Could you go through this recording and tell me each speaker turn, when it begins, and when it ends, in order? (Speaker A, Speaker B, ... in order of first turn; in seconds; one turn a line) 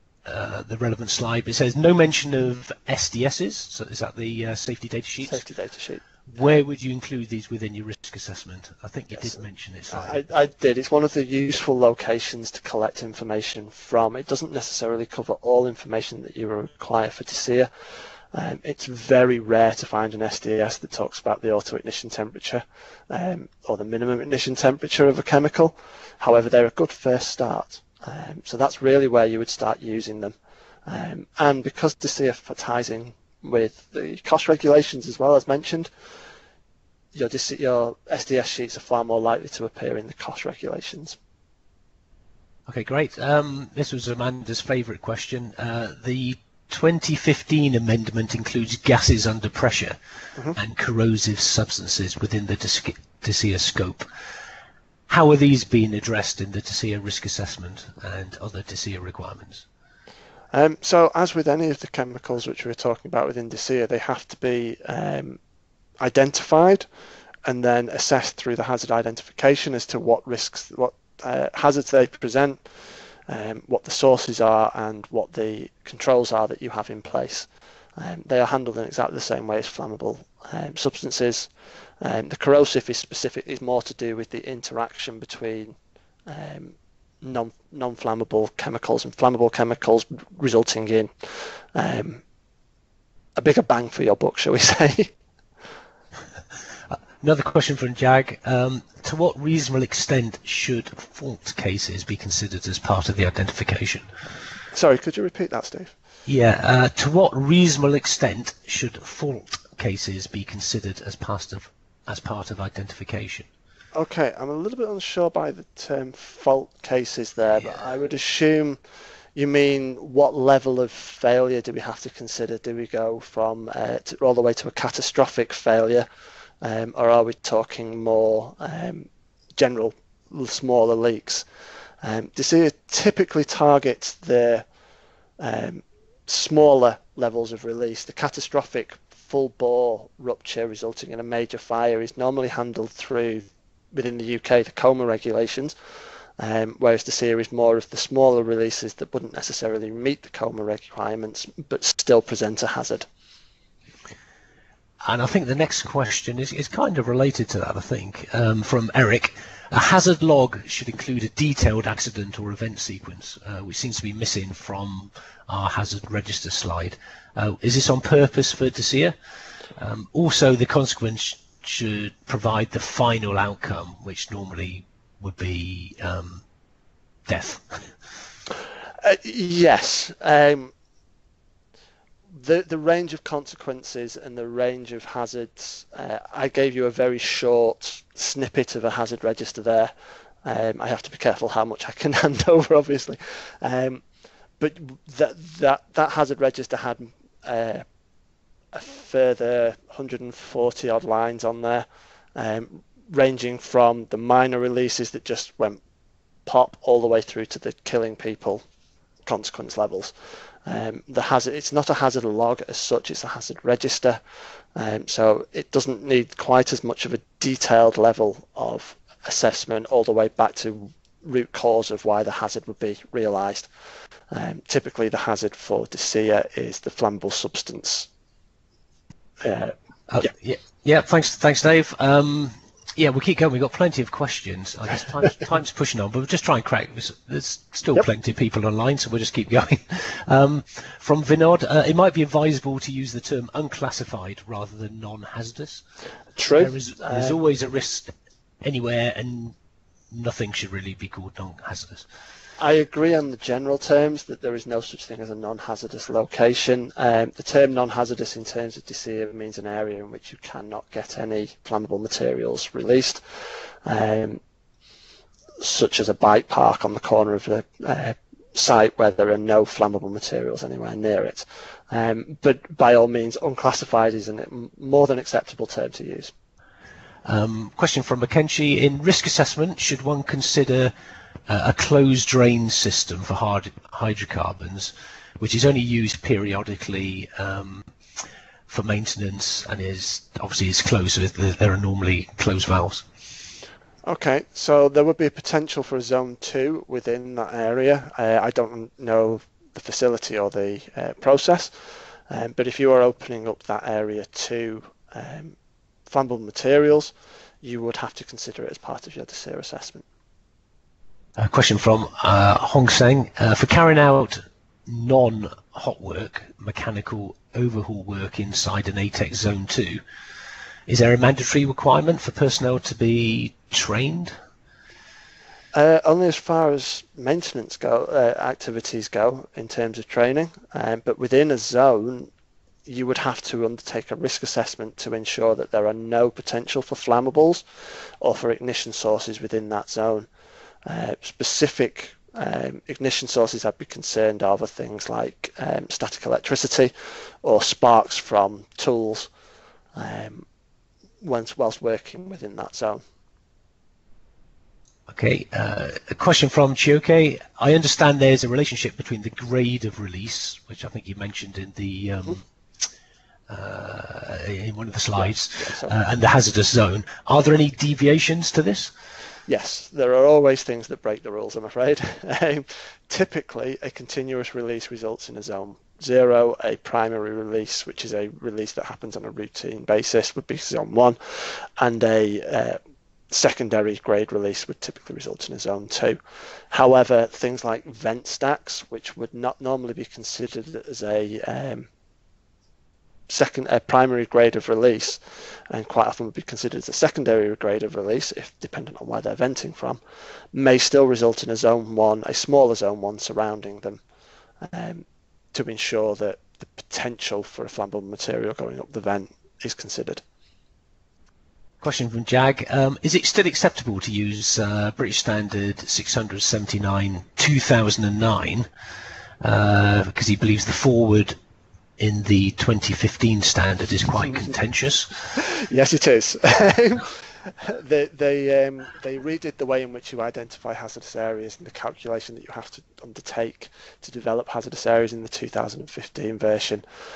Speaker A: 0.2-5.4
Speaker B: 5.2-6.0
Speaker A: 6.3-10.2
Speaker B: 9.9-17.7
Speaker B: 18.3-30.3
Speaker B: 30.9-35.9
Speaker B: 37.1-41.2
Speaker A: 42.7-50.0
Speaker A: 50.5-54.0
Speaker A: 55.1-59.6
Speaker B: 60.5-65.4
Speaker B: 66.0-66.8
Speaker B: 67.5-72.6
Speaker B: 73.3-81.5
Speaker B: 82.0-85.7
Speaker B: 86.3-92.2
Speaker B: 93.3-95.1
Speaker A: 96.9-104.0
Speaker B: 104.7-105.9
Speaker A: 106.2-113.5
Speaker B: 113.9-118.8
Speaker B: 119.3-126.0
Speaker B: 126.6-131.4
Speaker B: 132.0-134.6
Speaker B: 135.4-145.7
Speaker B: 146.4-153.1
Speaker A: 155.0-169.1
Speaker A: 169.8-176.4
Speaker A: 177.3-177.9
Speaker B: 179.0-180.7
Speaker B: 182.3-189.9
Speaker B: 190.4-194.0
Speaker B: 194.6-197.8
Speaker B: 198.7-205.8
Speaker B: 206.4-208.6
Speaker B: 209.2-210.1
Speaker B: 210.7-214.2
Speaker B: 214.7-223.7
Speaker B: 224.3-228.1
Speaker B: 229.4-230.3
Speaker A: 230.1-245.8
Speaker B: 246.4-247.4
Speaker A: 246.5-248.1
Speaker A: 248.6-249.5
Speaker A: 250.1-252.1
Speaker B: 252.6-263.2
Speaker B: 263.9-264.4
Speaker B: 265.6-276.3
Speaker A: 277.2-280.9
Speaker A: 281.5-287.9
Speaker A: 288.7-293.0
Speaker B: 294.1-301.7
Speaker B: 302.3-305.6
Speaker B: 306.1-310.1
Speaker A: 311.4-320.0
Speaker A: 320.9-324.3
Speaker B: 325.7-332.3
Speaker B: 332.9-337.6
Speaker B: 338.2-340.3
Speaker B: 340.9-346.9
Speaker B: 347.4-349.3
Speaker B: 349.9-350.4
Speaker B: 351.2-353.0
Speaker A: 355.1-362.4
Speaker A: 363.5-368.9
Speaker B: 365.1-365.9
Speaker B: 369.5-382.8
Speaker B: 383.3-386.2
Speaker B: 386.7-391.9
Speaker B: 393.3-400.0
Speaker B: 400.5-404.0
Speaker B: 404.6-410.2
Speaker A: 411.8-418.7
Speaker A: 419.4-421.3
Speaker A: 422.0-425.1
Speaker B: 425.4-436.8